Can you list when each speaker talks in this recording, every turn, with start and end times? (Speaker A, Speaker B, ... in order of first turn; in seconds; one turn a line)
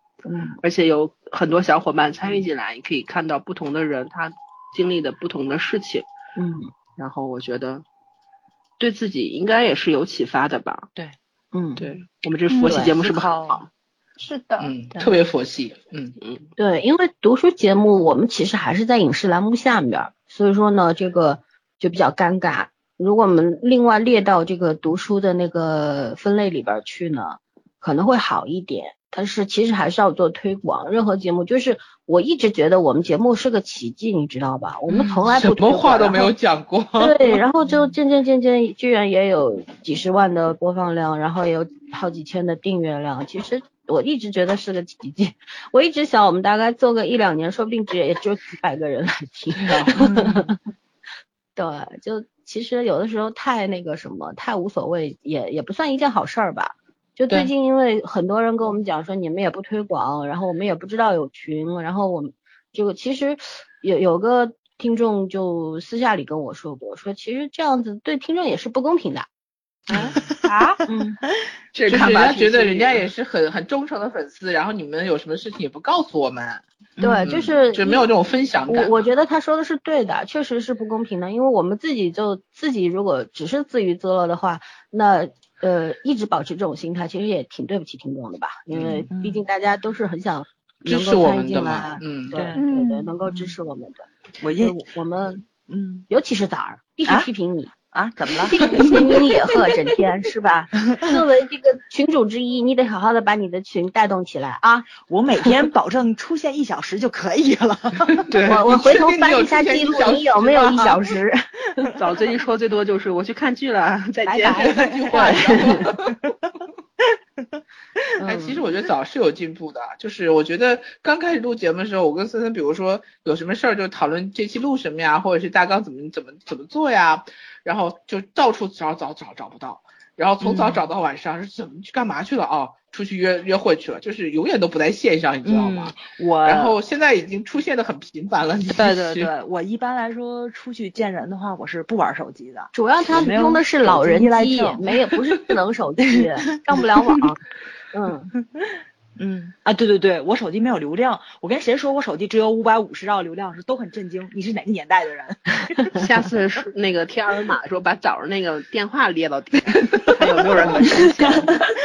Speaker A: 0.2-0.6
Speaker B: 0.6-6.1
Speaker A: 6.4-6.7
Speaker B: 7.0-7.8
Speaker B: 8.8-10.9
Speaker A: 11.5-11.8
Speaker B: 11.8-13.7
Speaker C: 12.5-12.8
Speaker A: 12.7-12.9
Speaker D: 13.0-13.7
Speaker C: 14.2-14.7
Speaker E: 14.6-16.1
Speaker B: 16.2-16.5
Speaker A: 16.6-36.3
Speaker E: 35.2-37.4
Speaker A: 37.0-50.6
Speaker E: 49.6-50.2
Speaker D: 50.0-50.5
Speaker A: 51.6-69.3
Speaker D: 69.9-70.3
Speaker C: 70.5-70.8
Speaker A: 70.9-71.2
Speaker B: 71.7-73.1
Speaker E: 71.9-76.6
Speaker A: 77.0-78.1
Speaker E: 77.2-79.0
Speaker A: 78.7-95.4
Speaker E: 88.7-89.1
Speaker D: 89.1-89.4
Speaker E: 90.9-92.5
Speaker C: 92.5-93.1
Speaker D: 93.3-93.5
Speaker D: 94.4-94.8
Speaker D: 95.7-96.1
Speaker A: 96.1-97.7
Speaker D: 97.9-99.4
Speaker A: 98.5-104.9
Speaker E: 98.6-98.9
Speaker D: 104.8-108.3
Speaker E: 108.2-111.0
Speaker A: 108.5-111.9
Speaker B: 112.0-115.4
Speaker D: 114.3-116.1
Speaker E: 114.4-116.2
Speaker A: 115.1-115.8
Speaker A: 118.2-118.6
Speaker E: 118.2-139.3
Speaker D: 130.4-130.9
Speaker D: 135.4-136.8
Speaker D: 138.7-144.8
Speaker A: 142.7-148.3
Speaker D: 146.8-147.2
Speaker D: 149.2-155.9
Speaker B: 155.9-161.6